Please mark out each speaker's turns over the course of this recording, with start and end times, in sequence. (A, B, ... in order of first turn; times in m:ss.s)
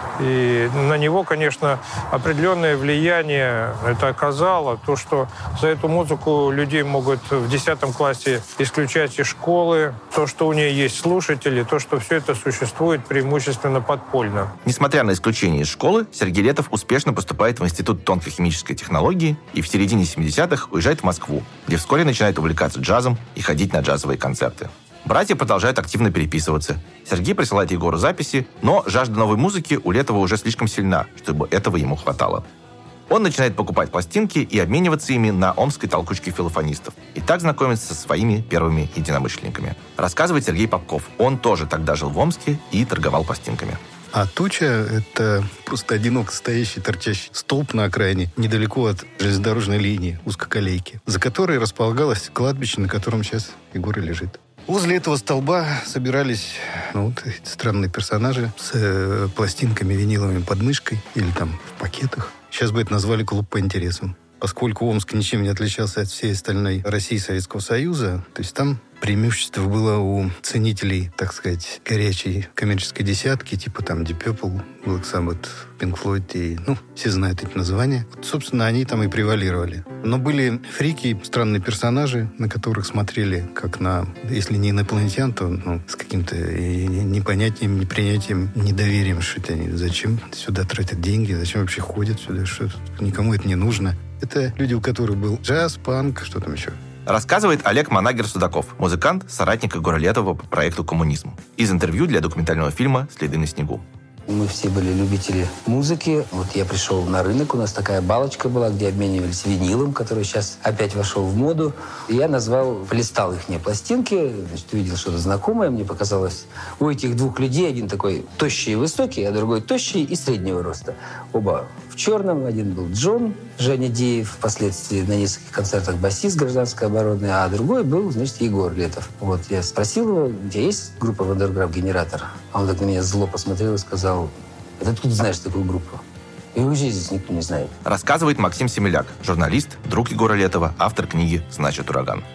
0:00.2-0:14.5 A
0:14.6-0:32.4 B
0:33.1-0:43.8 B
0:44.1-1:36.8 C
1:37.1-1:43.8 B
1:44.3-2:16.0 D
2:16.6-2:17.7 D
2:17.8-2:22.2 B